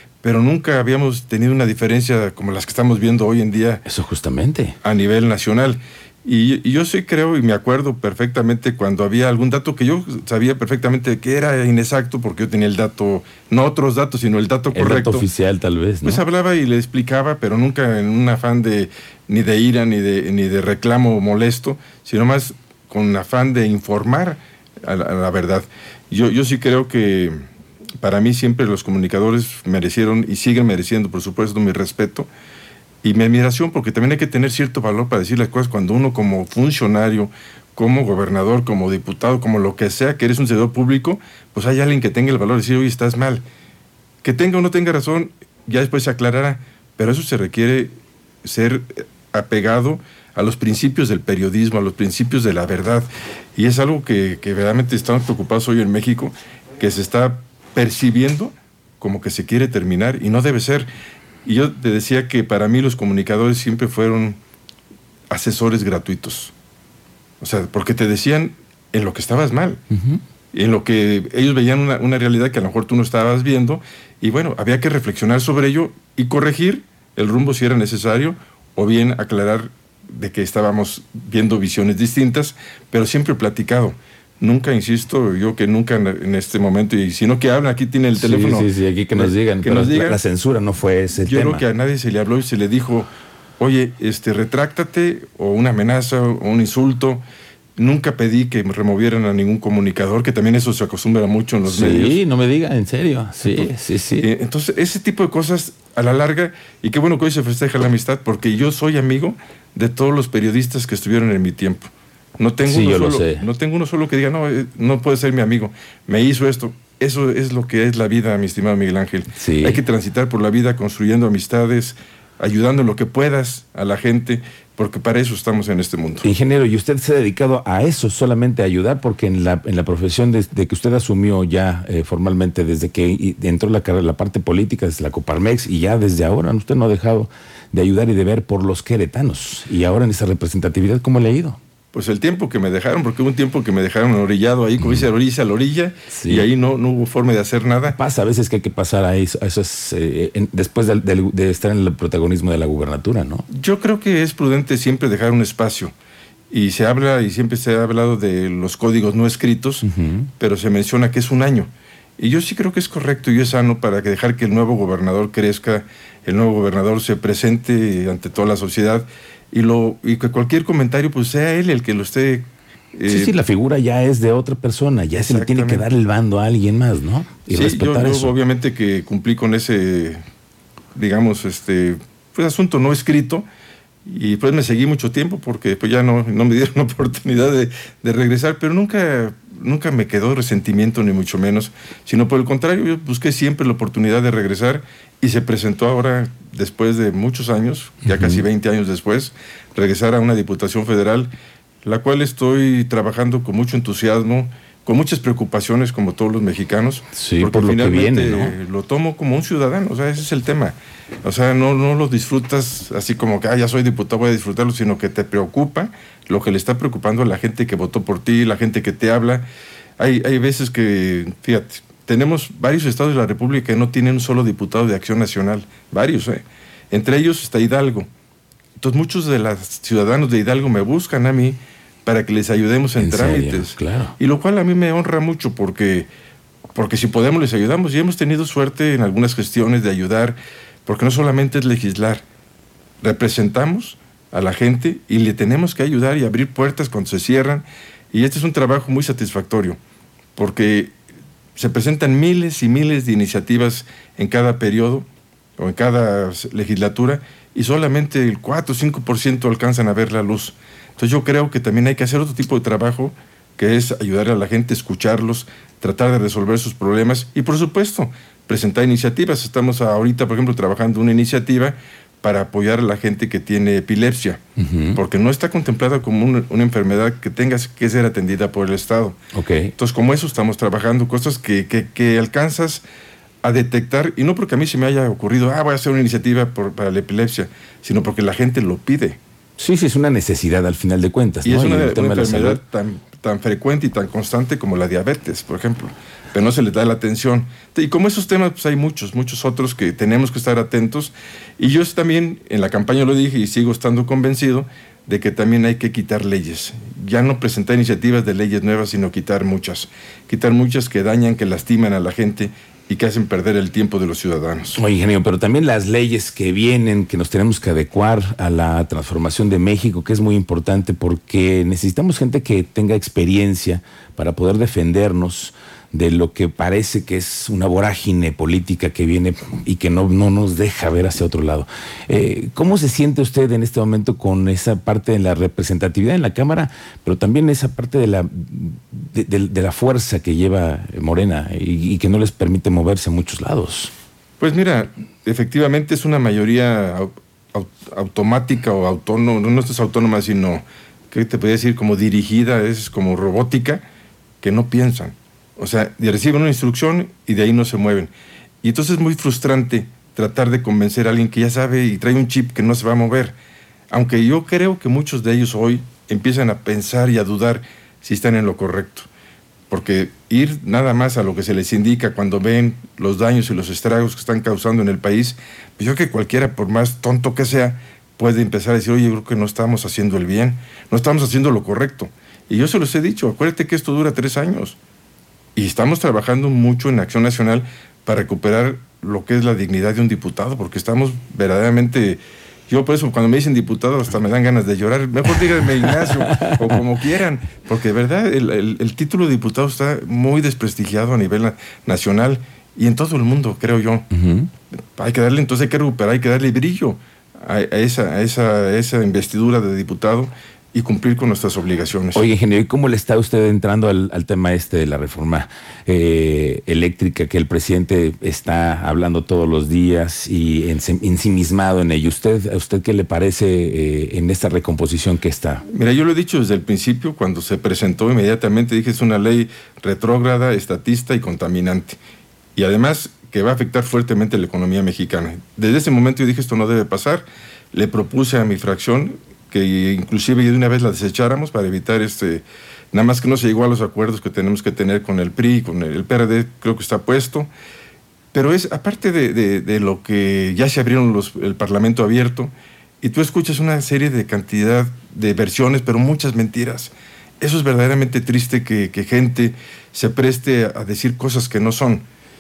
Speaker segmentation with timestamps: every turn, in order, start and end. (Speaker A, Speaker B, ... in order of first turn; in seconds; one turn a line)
Speaker A: 0.2-3.8
Speaker B: 3.9-4.8
Speaker A: 4.8-15.3
Speaker B: 14.7-16.2
Speaker A: 16.0-27.4
Speaker A: 28.0-32.3
Speaker A: 33.0-43.4
Speaker A: 44.2-47.9
Speaker A: 48.4-60.9
Speaker A: 61.5-64.4
Speaker A: 65.3-66.5
Speaker A: 67.4-69.8
Speaker B: 69.9-70.2
Speaker A: 70.5-90.2
Speaker B: 88.2-91.6
Speaker A: 91.2-97.2
Speaker A: 97.8-102.2
Speaker B: 101.7-104.3
Speaker A: 103.5-126.3
Speaker B: 112.7-113.4
Speaker B: 119.4-119.8
Speaker B: 126.2-141.6
Speaker A: 141.9-148.0
Speaker B: 144.8-145.1
Speaker B: 146.1-146.5
Speaker B: 147.9-153.5
Speaker A: 153.5-155.9
Speaker A: 156.5-159.9
Speaker B: 159.8-160.3
Speaker A: 160.4-173.3
Speaker B: 173.1-178.3
Speaker A: 175.1-175.9
Speaker A: 177.5-180.2
Speaker A: 180.9-183.4
Speaker A: 184.1-201.3
Speaker B: 198.1-198.4
Speaker A: 201.8-219.4
Speaker B: 207.2-208.6
Speaker A: 220.0-228.1
Speaker A: 228.8-236.1
Speaker B: 233.0-234.2
Speaker A: 236.8-242.2
Speaker A: 243.0-249.8
Speaker A: 250.4-250.9
Speaker A: 251.6-255.1
Speaker A: 255.6-274.4
Speaker B: 274.6-275.0
Speaker A: 274.9-279.2
Speaker B: 279.3-279.7
Speaker A: 279.8-282.8
Speaker A: 283.4-289.2
Speaker B: 289.6-292.6
Speaker A: 291.4-314.8
Speaker B: 314.8-343.9
Speaker A: 344.4-353.8
Speaker A: 354.4-358.1
Speaker A: 358.6-363.4
Speaker A: 363.9-369.1
Speaker A: 369.7-384.8
Speaker A: 385.6-404.1
Speaker B: 395.8-396.8
Speaker B: 404.1-404.5
Speaker A: 405.0-412.2
Speaker B: 412.1-425.6
Speaker A: 425.7-432.0
Speaker A: 432.6-447.5
Speaker A: 448.3-462.1